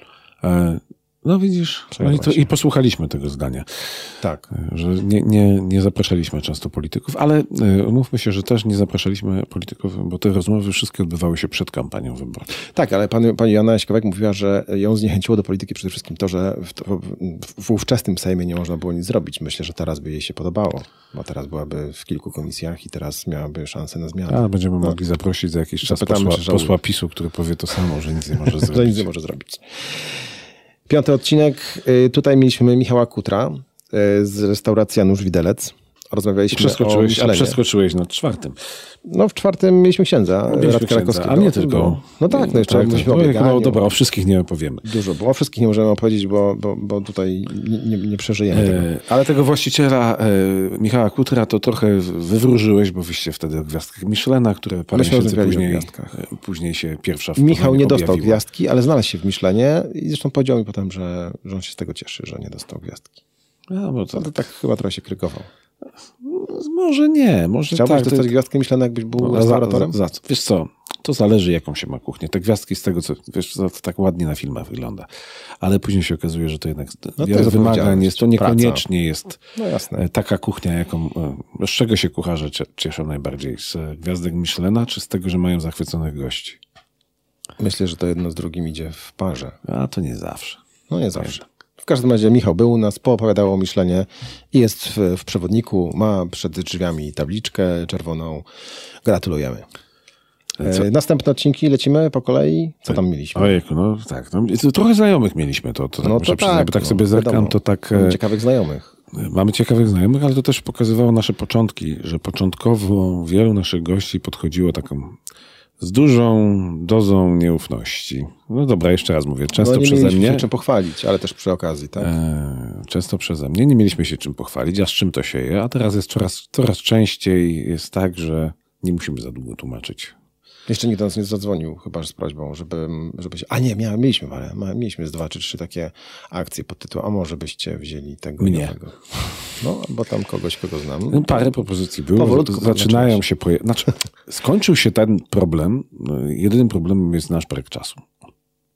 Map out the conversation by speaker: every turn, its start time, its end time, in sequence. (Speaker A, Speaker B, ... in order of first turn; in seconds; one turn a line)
Speaker A: 0.4-12.5
Speaker B: 1.9-2.5
Speaker B: 4.2-4.5
Speaker B: 12.6-25.0
Speaker A: 24.3-29.1
Speaker B: 25.8-26.8
Speaker B: 28.5-30.1
Speaker B: 30.9-37.6
Speaker A: 36.5-38.6
Speaker B: 39.0-43.8
Speaker A: 40.5-44.8
Speaker B: 44.8-48.9
Speaker A: 48.5-58.4
Speaker B: 54.9-56.2
Speaker B: 57.4-63.2
Speaker A: 63.7-64.3
Speaker B: 64.1-65.5
Speaker A: 66.2-68.3
Speaker B: 67.7-70.0
Speaker A: 69.2-75.1
Speaker A: 75.6-79.4
Speaker B: 77.2-78.8
Speaker B: 79.5-80.1
Speaker A: 80.0-86.6
Speaker B: 87.6-89.6
Speaker A: 89.6-90.6
Speaker B: 90.9-98.5
Speaker B: 99.0-99.7
Speaker A: 100.6-100.9
Speaker B: 100.6-103.6
Speaker A: 102.9-108.2
Speaker B: 106.0-108.9
Speaker A: 109.1-115.2
Speaker A: 115.8-120.5
Speaker B: 119.6-122.1
Speaker A: 122.0-130.1
Speaker B: 130.7-141.6
Speaker A: 138.4-138.8
Speaker A: 141.1-148.1
Speaker B: 142.1-143.2